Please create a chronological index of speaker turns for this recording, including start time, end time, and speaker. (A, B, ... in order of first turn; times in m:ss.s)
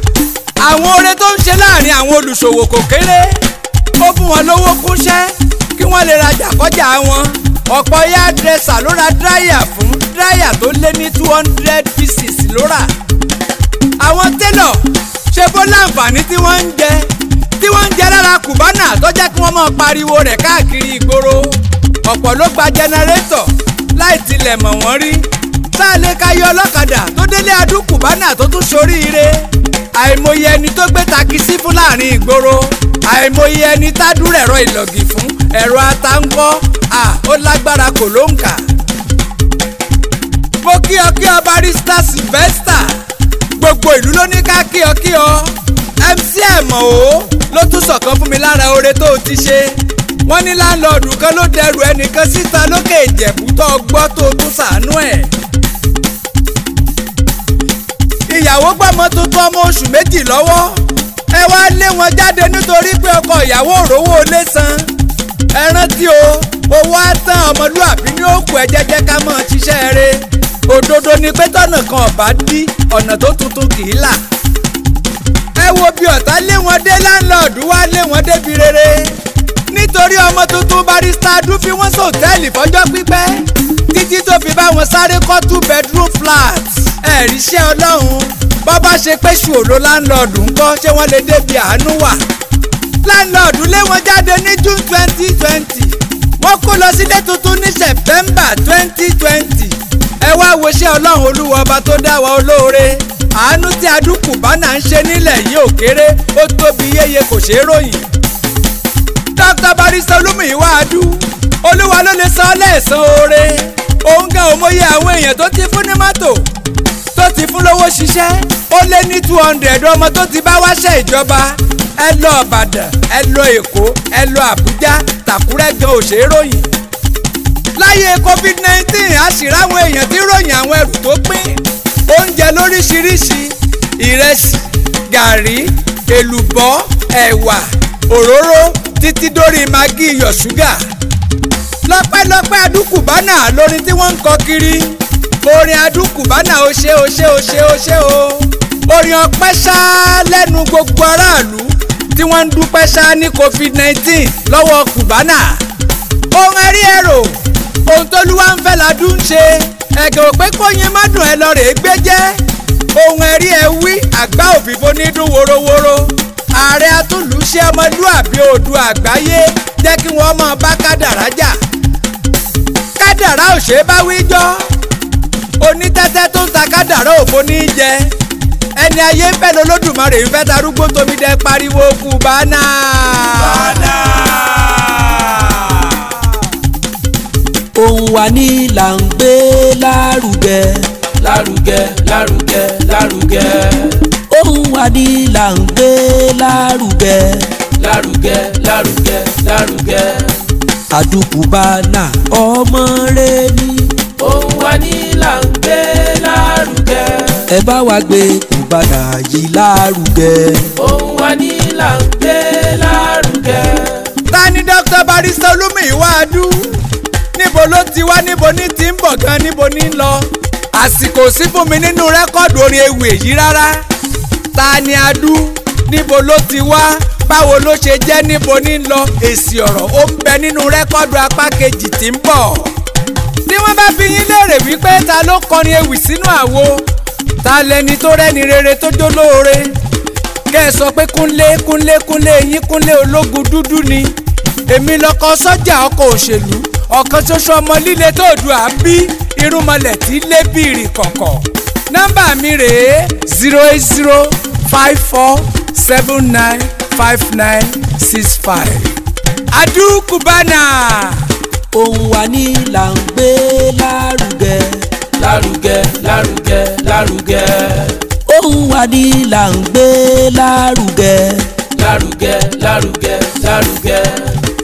0:00.6-0:03.4 A
0:04.0-0:12.9 A
0:14.0-0:38.6 A
0:40.6-0:43.0 A
0:43.6-0:55.3 A
0:58.3-1:04.9 A
1:05.5-1:14.2 A
1:15.6-1:19.2 A
1:19.7-1:32.2 A
1:33.0-1:48.1 A
1:49.4-1:56.4 A
1:57.1-2:06.7 A
2:07.8-2:20.8 A
2:21.9-2:35.6 A
2:36.3-2:37.3 A
2:37.9-2:42.4 A
2:42.9-2:51.6 A
2:53.0-2:54.7 A
2:55.6-2:58.1 A
2:58.8-3:04.3 A
3:07.8-3:10.9 B
3:11.2-3:14.1 C
3:14.3-3:17.5 B
3:17.8-3:20.4 C
3:20.9-3:24.0 B
3:24.2-3:27.5 C
3:27.5-3:30.7 B
3:30.8-3:34.1 C
3:34.3-3:36.8 A
3:37.3-3:43.8 A
3:44.5-3:52.7 A
3:53.4-3:56.8 A
3:57.4-3:59.7 A
4:00.5-4:04.1 A
4:04.7-4:18.9 A
4:19.5-4:21.2 A
4:21.7-4:24.9 B
4:25.2-4:28.0 C
4:28.3-4:31.5 B
4:31.7-4:34.4 C